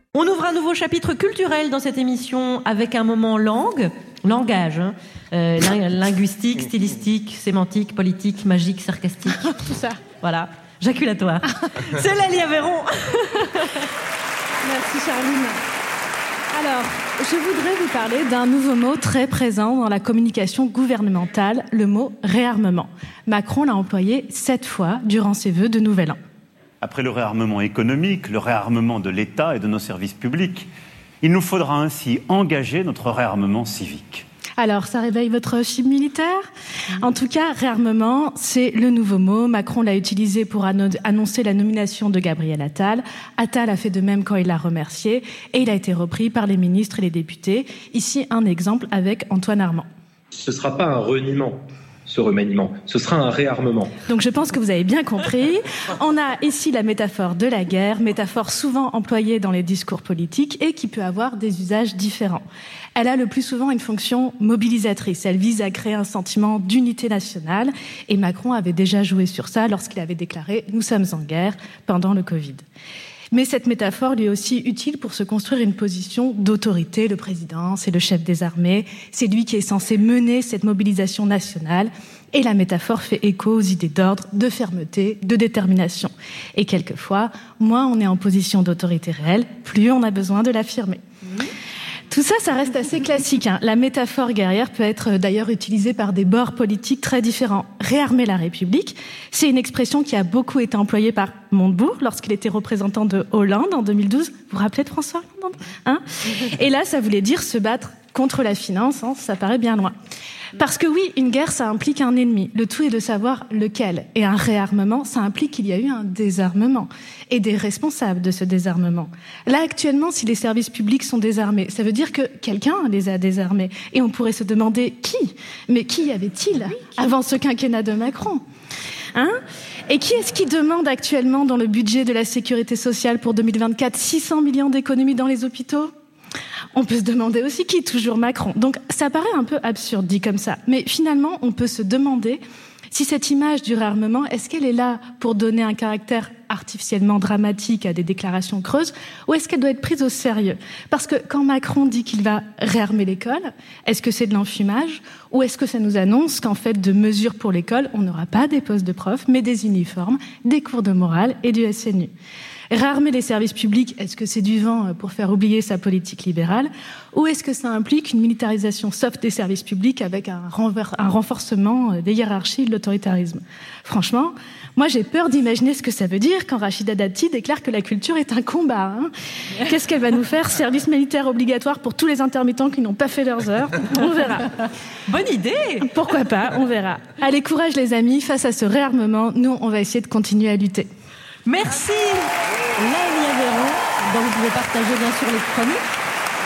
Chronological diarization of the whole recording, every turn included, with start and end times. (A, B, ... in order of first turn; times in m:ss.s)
0:00.1-0:09.6 A
0:09.5-0:10.0 B
0:10.2-0:13.8 A
0:14.6-0:15.6 B
0:16.5-0:26.2 B
0:26.8-0:30.7 C
0:31.2-0:34.2 C
0:34.6-0:36.4 B
0:36.9-0:49.9 B
0:50.4-0:53.9 D
0:54.1-1:02.4 B
1:03.0-1:12.6 B
1:13.3-1:31.0 B
1:32.1-1:49.9 B
1:50.6-2:08.4 B
2:09.1-2:15.9 B
2:16.8-2:22.4 B
2:22.9-2:42.1 B
2:42.7-3:04.5 B
3:05.1-3:05.9 A
3:05.8-3:10.9 B
3:11.5-3:15.9 A